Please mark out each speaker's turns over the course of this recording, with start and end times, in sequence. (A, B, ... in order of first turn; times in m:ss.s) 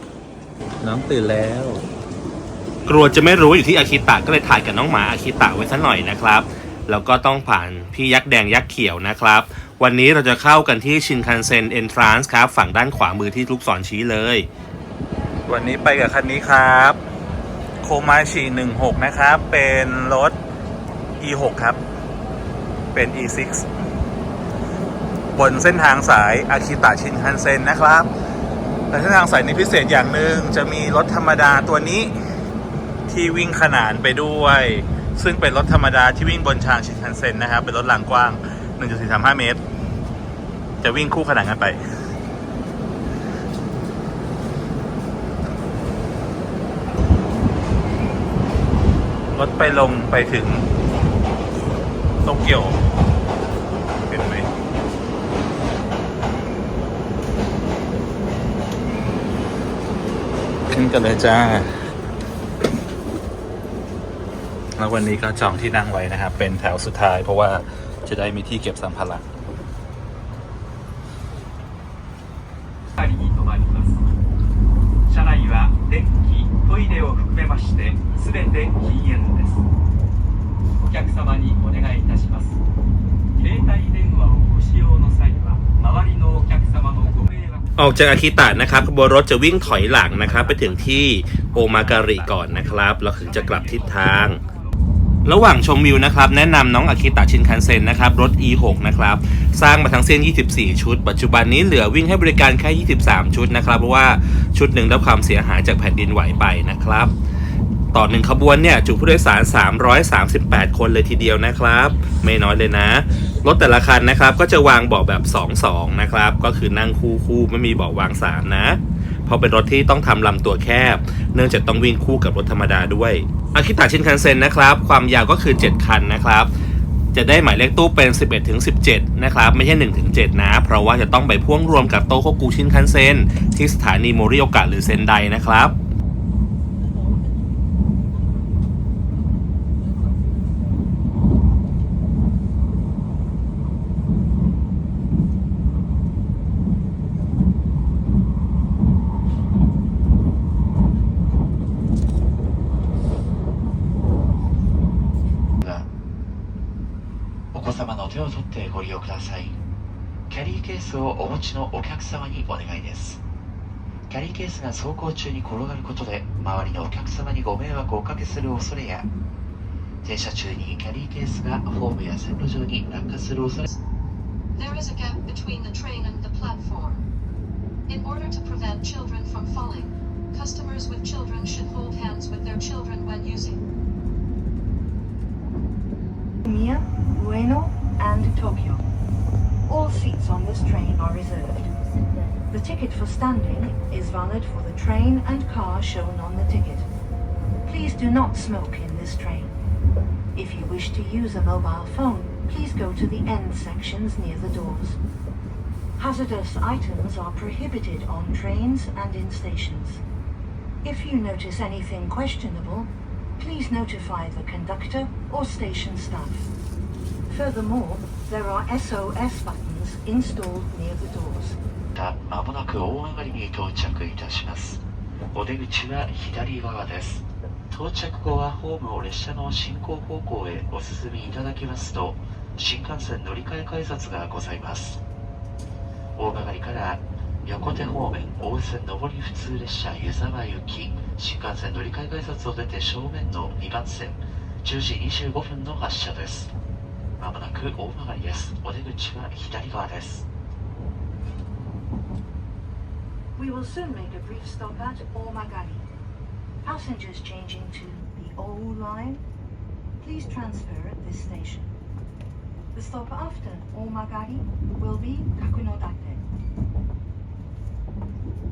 0:00.8-0:01.8 A
0:02.9-0:14.5 B
0:15.5-0:17.0 A
0:17.8-0:20.3 A
0:21.2-0:21.8 A
0:22.9-0:23.7 A
0:25.3-0:28.1 A
0:28.9-0:32.1 A
0:33.1-0:39.6 A
0:40.8-0:41.8 A
0:49.3-0:50.6 A
0:52.2-0:52.7 A
0:54.1-0:54.5 A
1:00.7-1:01.7 A
1:04.8-1:09.2 A
1:13.0-1:14.0 C
1:15.1-1:19.6 C
1:20.8-1:22.6 C
1:23.4-1:27.8 C
1:27.8-1:34.4 B
1:30.6-1:30.9 C
1:31.6-1:34.8 C
1:35.2-1:47.1 B
1:47.9-2:06.5 B
2:07.1-2:15.8 B
2:35.6-2:35.9 D
2:37.5-2:39.6 D
2:40.3-2:43.2 D
2:44.1-2:49.1 D
2:50.0-2:53.7 D
2:54.5-2:57.1 E
2:57.9-3:03.6 E
3:06.4-3:08.8 F
3:09.7-3:11.7 F
3:12.5-3:16.9 F
3:17.7-3:19.6 F
3:20.3-3:25.0 F
3:26.0-3:30.0 F
3:30.8-3:36.5 F
3:37.3-3:41.6 F
3:41.9-3:55.0 D
3:56.2-4:06.5 D
4:07.2-4:10.3 D
4:13.4-4:15.9 F
4:16.6-4:19.2 F
4:20.0-4:21.7 F
4:22.7-4:26.2 F